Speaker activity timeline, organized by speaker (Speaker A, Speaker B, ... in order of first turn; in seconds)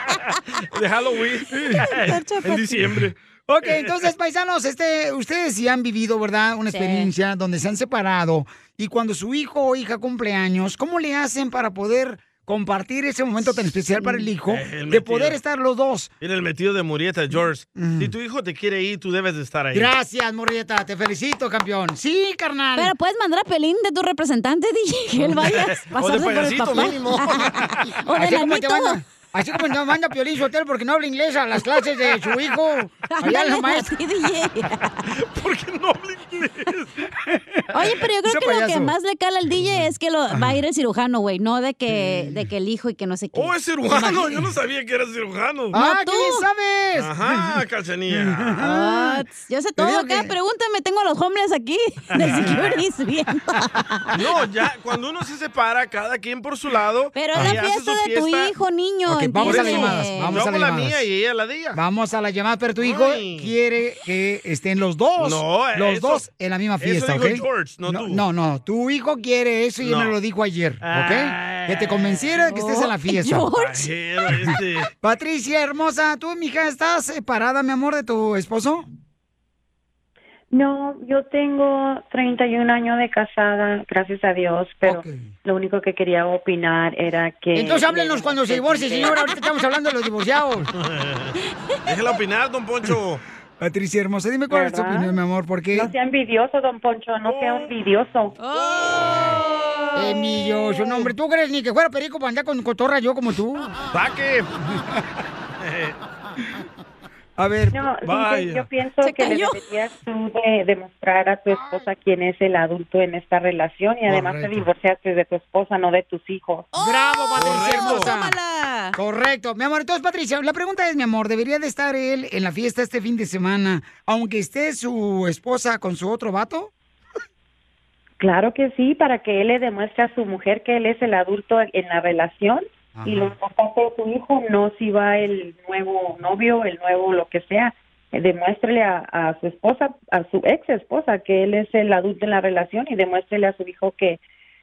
Speaker A: 0.7-4.1, 14.4-15.4, 16.2-19.9, 25.3-27.7, 35.1-36.9, 43.3-45.7, 47.0-48.6, 52.1-52.7, 54.1-58.5, 59.4-61.8, 62.8-63.5, 65.2-66.3, 66.8-68.2, 69.8-70.2, 70.8-72.5, 73.5-74.9, 90.8-91.3, 91.8-93.2, 97.2-97.7, 103.9-104.5, 105.6-106.0, 108.0-108.7, 117.4-118.1
Speaker B: 1.9-2.8, 6.7-7.1, 14.0-14.2, 22.8-29.0, 33.1-35.0, 37.7-43.5, 45.7-46.4, 48.6-54.1, 57.1-60.4, 72.5-73.9, 98.4-100.7, 109.0-109.6, 116.7-119.0
Speaker C: 3.5-16.1, 17.8-18.1, 19.7-22.9, 28.1-33.9, 37.3-38.9, 41.9-42.3, 43.9-44.4, 45.7-47.5, 48.1-49.2, 49.8-50.3, 59.1-61.0, 61.7-73.5, 75.0-78.9, 84.8-85.3, 87.5-90.7, 93.6-95.9, 100.0-103.8, 107.4-107.8, 114.1-114.7, 116.8-118.3, 119.0-126.7, 132.9-133.3
Speaker D: 80.5-89.1, 94.5-95.1, 95.7-98.3, 107.7-116.7, 128.2-144.2